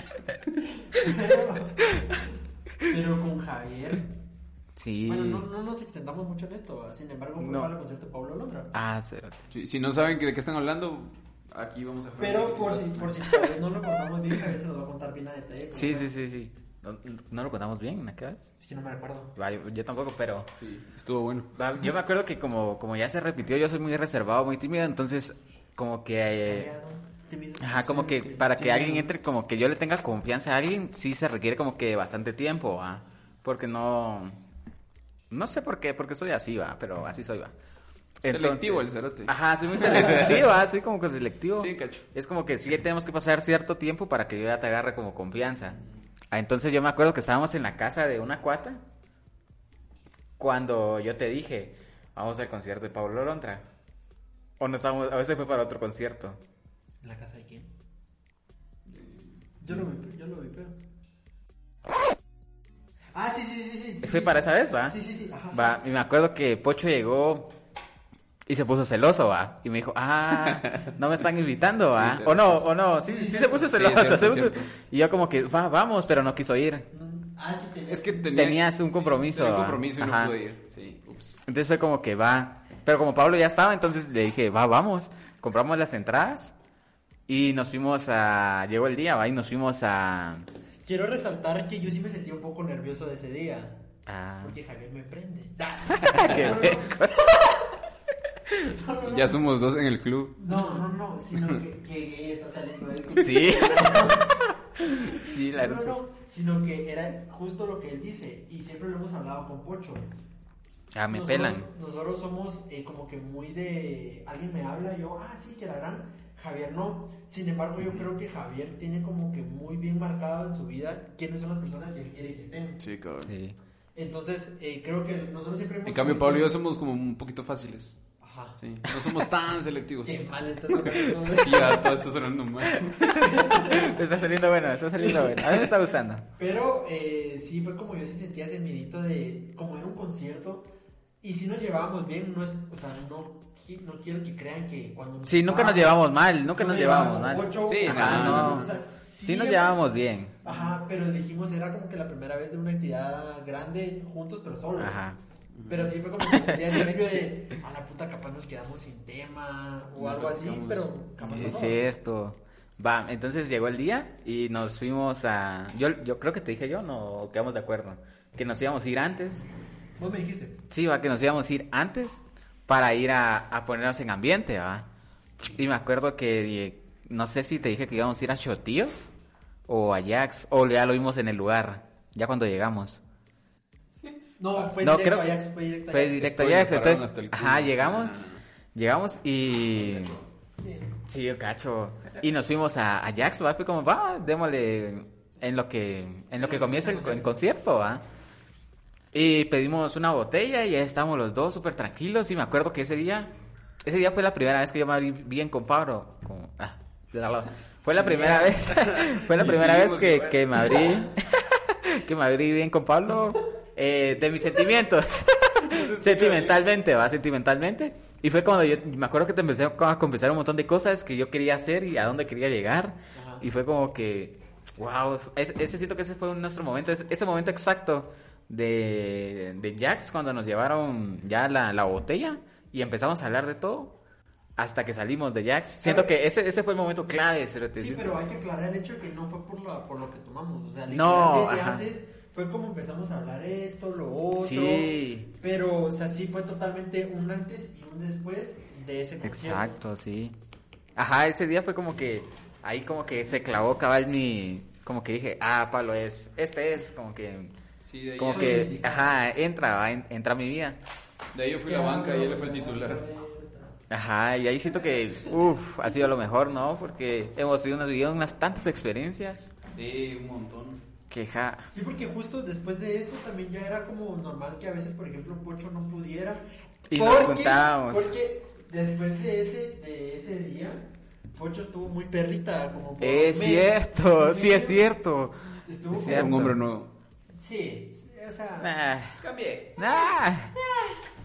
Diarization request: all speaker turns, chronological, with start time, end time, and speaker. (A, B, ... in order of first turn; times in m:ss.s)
0:00.6-0:02.3 A
0:02.8-0:04.1 A
0:04.8-0:05.4 B
0:05.0-0:08.7 A
0:07.4-0:07.7 B
0:08.7-0:09.4 B
0:09.5-0:13.4 C
0:12.2-0:16.1 A
0:15.7-0:18.4 B
0:18.6-0:19.3 A
0:19.4-0:20.5 B
0:20.6-0:21.6 C
0:21.6-0:26.7 B
0:26.4-0:29.2 A
0:27.6-0:34.4 B
0:35.3-0:37.5 B
0:38.2-0:45.8 B
0:38.3-0:40.5 C
0:41.6-0:42.0 C
0:46.3-0:48.8 B
0:50.4-0:53.6 B
0:54.6-0:56.4 B
0:57.0-0:57.7 A
0:58.9-0:59.3 C
0:59.6-1:00.7 A
1:03.1-1:05.8 A
1:04.0-1:05.0 B
1:05.5-1:07.5 B
1:08.5-1:16.9 B
1:10.4-1:10.9 C
1:11.9-1:12.6 C
1:13.0-1:13.7 A
1:13.7-1:14.7 C
1:16.9-1:18.3 A
1:17.9-1:21.4 C
1:18.3-1:20.4 B
1:21.4-1:26.5 B
1:27.3-1:30.5 B
1:30.8-1:33.8 A
1:34.0-1:34.6 B
1:34.4-1:37.6 A
1:36.0-1:37.3 B
1:38.6-1:39.4 A
1:39.0-1:40.5 C
1:40.4-1:44.4 A
1:43.2-1:46.0 B
1:44.9-1:50.1 A
1:50.9-1:51.6 B
1:51.1-2:02.8 A
2:02.8-2:03.3 C
2:03.2-2:03.6 B
2:03.9-2:06.5 A
2:05.8-2:08.0 C
2:08.2-2:08.6 A
2:08.6-2:10.2 C
2:10.0-2:12.0 A
2:10.7-2:13.2 C
2:12.8-2:16.2 B
2:13.2-2:14.0 A
2:15.0-2:15.6 A
2:16.3-2:20.7 A
2:21.2-2:29.8 A
2:25.2-2:30.4 B
2:27.6-2:28.7 C
2:30.4-2:35.0 A
2:34.8-2:35.2 B
2:35.6-2:35.9 C
2:35.7-2:41.8 A
2:36.2-2:37.2 B
2:40.0-2:41.6 C
2:41.3-2:49.4 B
2:50.0-2:50.6 A
2:50.7-2:54.9 B
2:55.5-2:59.1 B
2:59.7-3:03.0 B
3:04.4-3:06.6 A
3:04.8-3:05.4 B
3:05.9-3:08.2 B
3:06.3-3:08.4 C
3:08.7-3:10.2 B
3:09.8-3:10.1 C
3:10.6-3:10.9 A
3:11.1-3:18.0 B
3:16.4-3:17.3 A
3:19.1-3:23.3 B
3:23.8-3:54.0 B
3:28.0-3:30.9 C
3:35.6-3:36.6 C
3:43.1-3:43.4 A
3:54.6-3:58.1 B
3:55.8-3:56.1 A
3:57.8-4:09.8 A
4:00.9-4:01.8 B
4:04.4-4:05.3 B
4:09.2-4:10.4 B
4:10.9-4:17.5 B
4:17.9-4:18.7 C
4:18.2-4:20.8 B
4:18.2-4:19.2 A
4:21.3-4:23.0 C
4:21.7-4:23.8 A
4:23.9-4:29.5 B
4:29.7-4:30.8 C
4:31.1-4:31.7 B
4:31.7-4:44.9 A
4:36.9-4:38.1 B
4:43.0-4:46.6 B
4:45.6-4:46.6 A
4:46.0-4:46.9 C
4:47.4-4:48.7 A
4:48.6-4:49.2 B
4:49.2-4:49.8 C
4:49.8-4:50.5 B